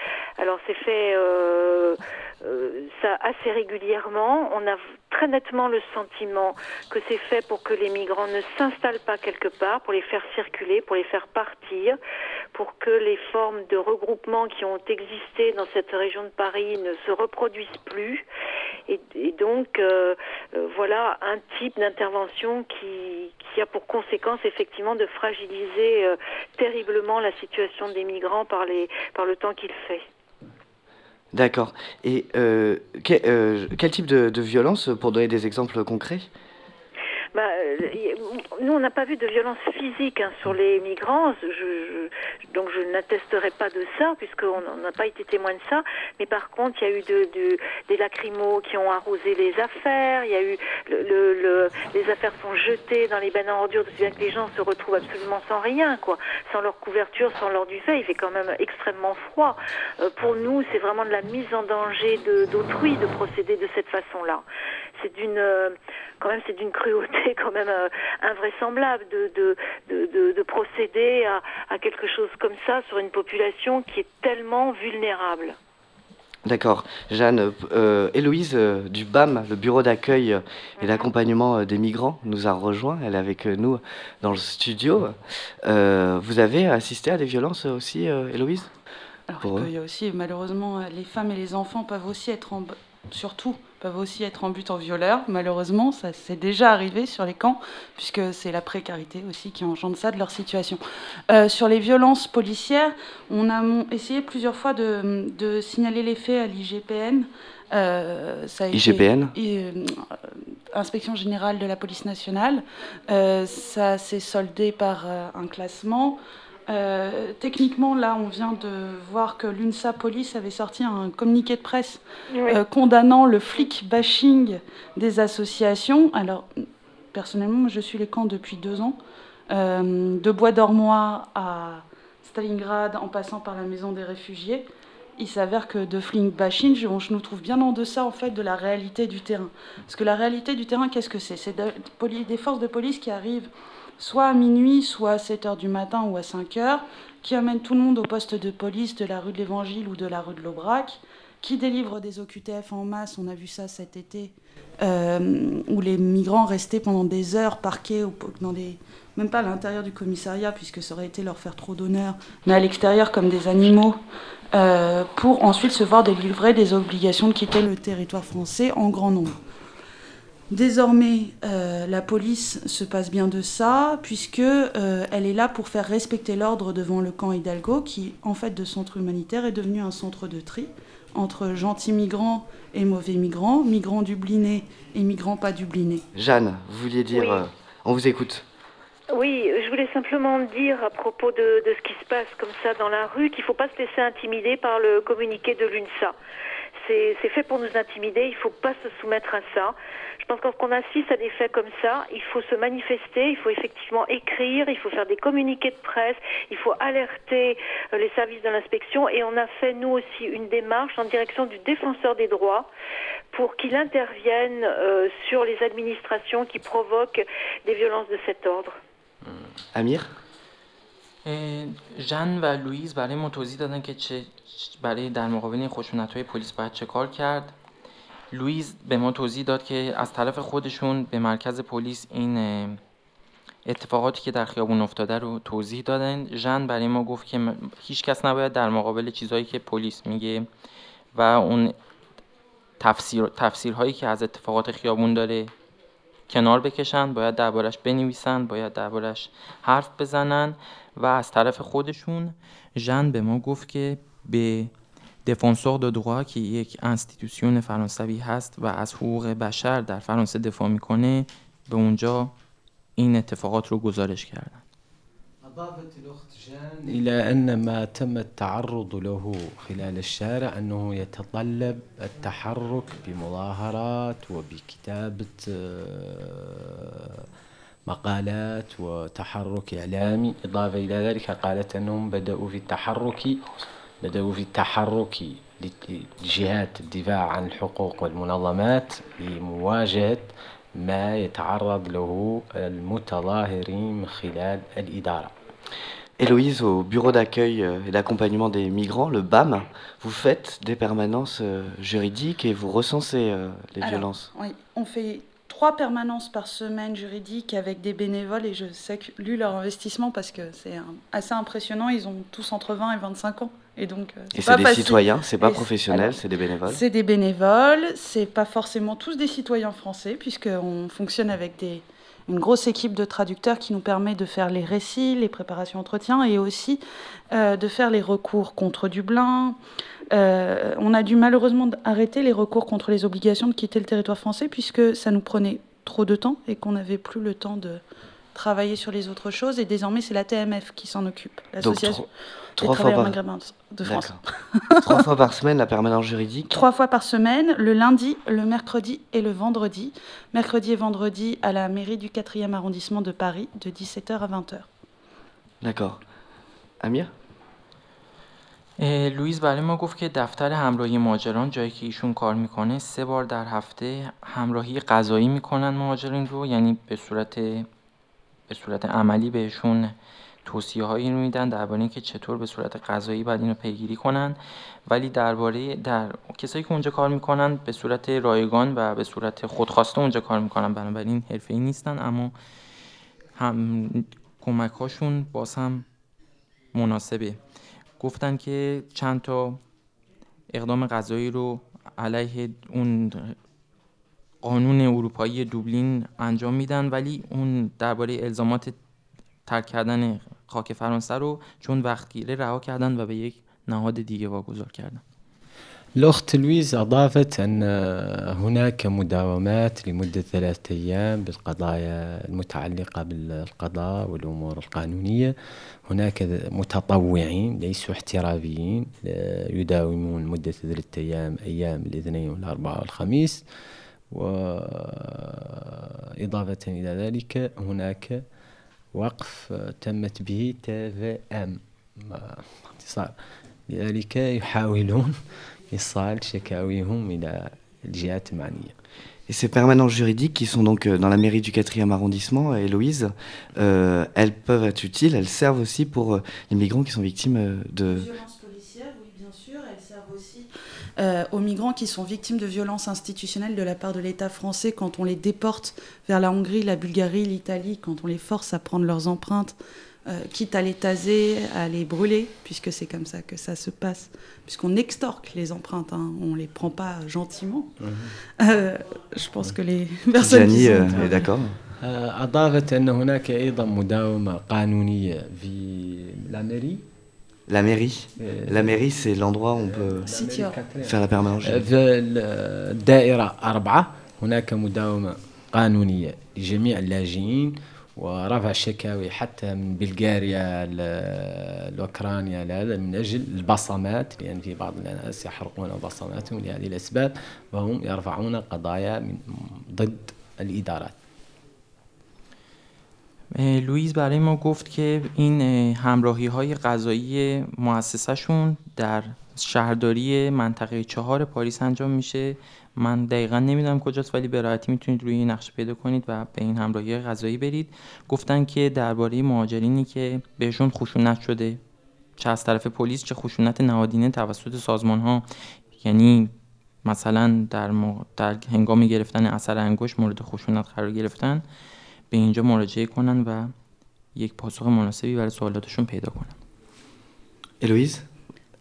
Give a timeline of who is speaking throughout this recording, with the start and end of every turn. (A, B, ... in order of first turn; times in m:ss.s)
0:00.4-0:12.0 A
0:12.5-0:18.2 A
0:18.9-0:30.0 A
0:31.3-0:36.3 B
0:37.3-1:04.4 A
1:05.0-1:15.6 A
1:16.5-1:28.7 B
1:20.8-1:21.1 A
1:29.3-1:50.2 C
1:29.4-1:29.7 B
1:48.7-1:49.3 B
1:50.7-2:06.6 C
2:02.3-2:02.6 A
2:07.1-2:09.0 C
2:09.5-2:44.0 C
2:44.5-2:49.4 C
2:50.5-3:06.0 C
3:06.2-3:08.4 B
3:07.1-3:07.4 A
3:09.1-3:16.2 A
3:16.8-3:32.7 A
3:33.3-3:38.8 A
3:39.7-3:40.1 B
3:41.2-3:47.5 D
3:48.3-3:52.8 D
3:53.6-4:00.5 D
4:01.1-4:01.8 D
4:02.8-4:05.5 D
4:06.3-4:14.7 D
4:15.3-4:22.3 D
4:23.0-4:24.6 D
4:25.4-4:37.3 E
4:37.9-4:43.4 E
4:44.0-4:55.3 E
4:56.2-5:04.3 B
5:03.8-5:29.6 C
5:14.3-5:16.8 B
5:30.1-5:37.8 C
5:38.4-5:45.0 C
5:41.6-5:42.0 B
5:42.6-5:43.2 B
5:43.8-5:44.2 B
5:44.8-5:46.6 B
5:46.5-5:54.7 C
5:55.6-5:56.0 B
5:56.8-5:57.1 B
5:58.8-6:07.7 D
6:08.5-6:22.3 D
6:23.4-6:25.8 D
6:26.7-6:27.4 D
6:28.0-6:29.6 D
6:30.5-6:33.4 D
6:34.4-6:38.8 D
6:39.5-6:45.0 D
6:46.0-6:55.4 E
6:55.9-7:03.4 E
7:04.1-7:08.2 E
7:08.9-7:13.2 E
7:13.7-7:15.2 E
7:15.7-7:18.7 E
7:19.3-7:28.1 B
7:27.9-7:39.6 C
7:40.1-7:47.7 C
7:47.8-7:48.1 E
7:48.4-7:51.3 C
7:50.2-7:51.6 B
7:51.8-7:56.9 E
7:57.5-8:00.1 B
7:58.2-7:58.9 E
7:59.7-8:21.0 E
8:00.1-8:00.6 C
8:00.9-8:01.7 B
8:23.3-8:41.6 D
8:42.2-8:51.4 D
8:52.1-8:53.5 D
8:54.2-8:56.4 D
8:57.6-8:58.0 B